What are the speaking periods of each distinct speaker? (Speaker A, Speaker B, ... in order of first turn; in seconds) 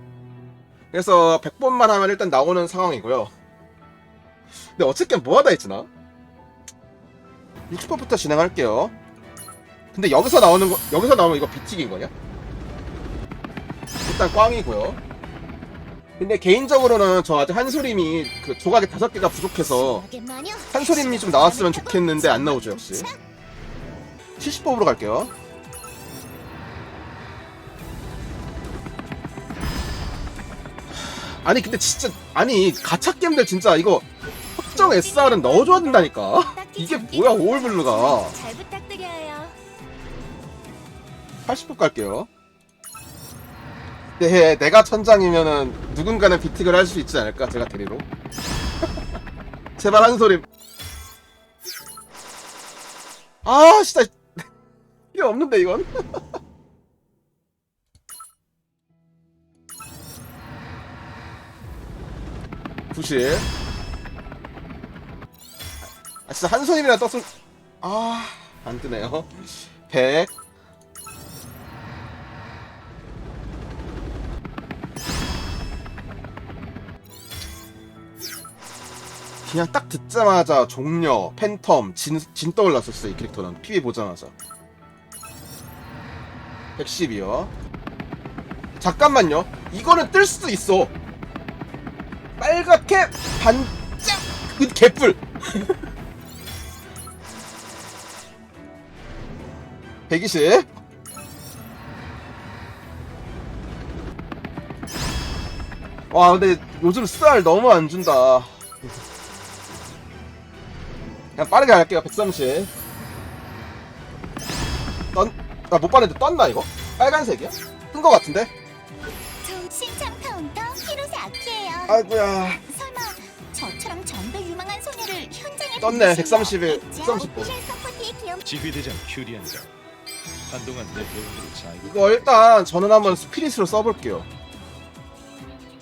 Speaker A: 0.9-3.3, 4.8-5.9, 7.7-8.9, 9.9-12.1, 14.0-15.0, 16.2-20.0, 20.7-23.1, 24.4-25.3, 31.4-34.0, 34.7-38.4, 41.5-42.3, 44.2-48.0, 49.8-50.4, 53.4-54.2, 55.1-55.9, 62.9-63.5, 66.3-67.3, 67.8-70.3, 79.5-84.3, 86.8-87.5, 88.8-90.9, 92.4-95.7, 100.1-100.7, 106.1-108.5, 111.3-112.7, 115.1-118.5, 121.9-122.6, 125.8-127.5, 131.8-134.3
Speaker B: 19.6-23.2, 34.6-39.6, 119.4-128.4
Speaker C: 128.4-129.7, 130.5-132.2